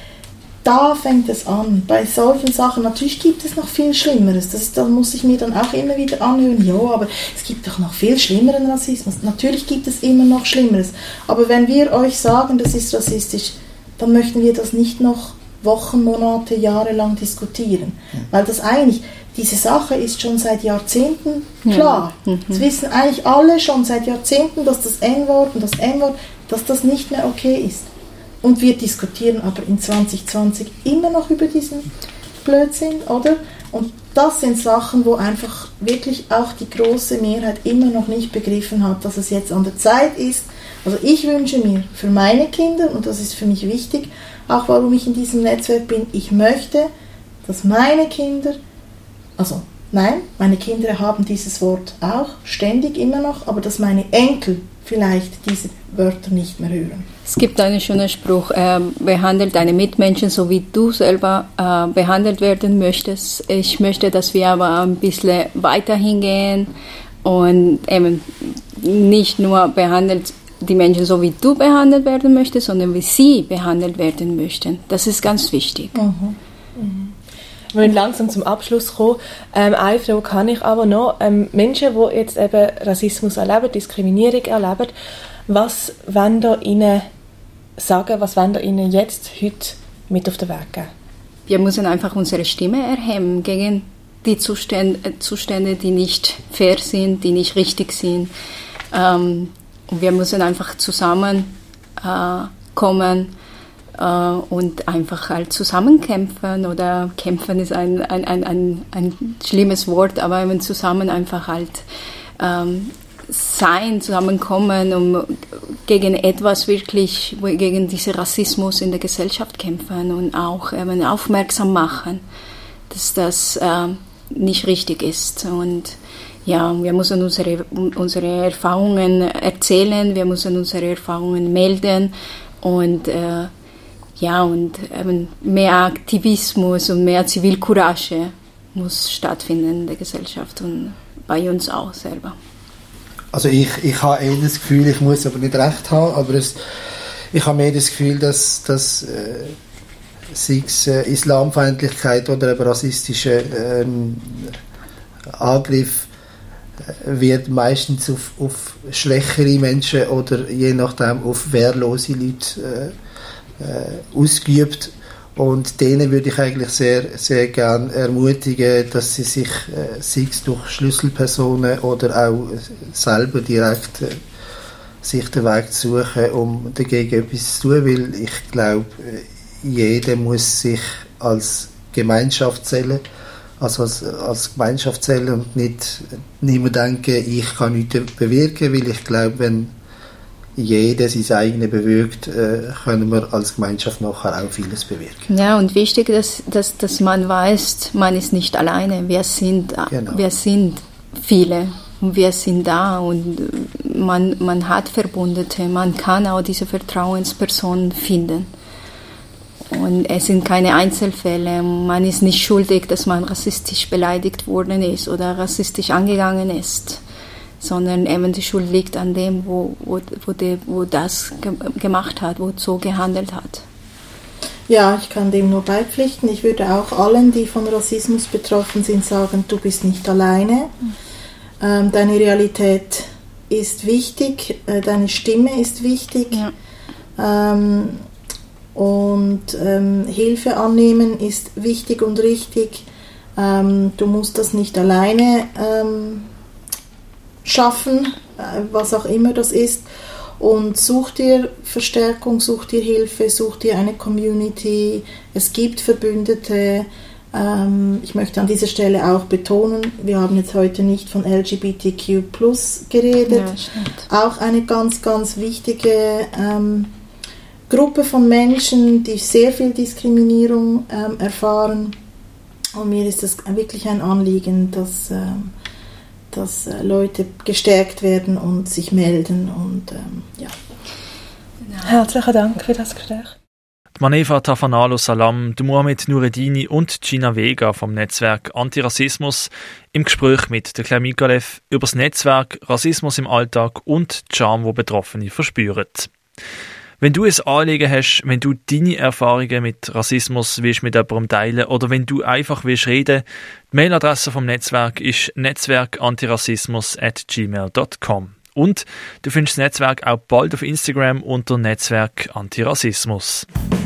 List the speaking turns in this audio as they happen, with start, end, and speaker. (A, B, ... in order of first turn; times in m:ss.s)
0:00.6-0:27.9 A
0:21.6-0:22.6 B
0:28.4-0:31.9 A
0:32.4-0:46.9 A
0:47.4-0:48.6 A
0:49.4-0:57.1 A
0:57.2-1:06.7 B
1:07.2-1:16.0 B
1:15.9-1:16.4 A
1:16.8-1:17.1 C
1:17.7-1:24.9 C
1:25.5-1:27.1 C
1:27.8-1:30.9 C
1:31.5-1:38.3 B
1:38.9-1:43.3 B
1:44.0-1:51.8 B
1:52.4-2:02.2 B
2:02.9-2:13.5 B
2:14.2-2:22.4 B
2:23.3-2:26.6 D
2:27.3-2:29.6 D
2:30.3-2:34.6 D
2:35.3-2:36.1 D
2:36.8-2:42.9 D
2:43.6-2:54.2 D
2:55.0-3:03.0 D
3:03.6-3:09.7 D
3:10.6-3:15.2 D
3:15.3-3:28.5 B
3:19.9-3:20.2 D
3:29.7-3:37.0 B
3:37.6-3:43.6 B
3:44.7-3:50.7 A
3:51.6-3:56.4 A
3:57.2-3:58.0 A
3:58.7-4:02.8 A
4:03.4-4:06.2 A
4:07.4-4:09.8 A
4:10.4-4:23.5 A
4:23.3-4:24.0 B
4:24.1-4:26.9 A
4:27.7-4:32.0 A
4:32.8-4:35.5 A
4:36.3-4:40.5 A
4:41.8-4:43.3 C
4:44.0-4:56.1 E
4:57.0-5:13.5 E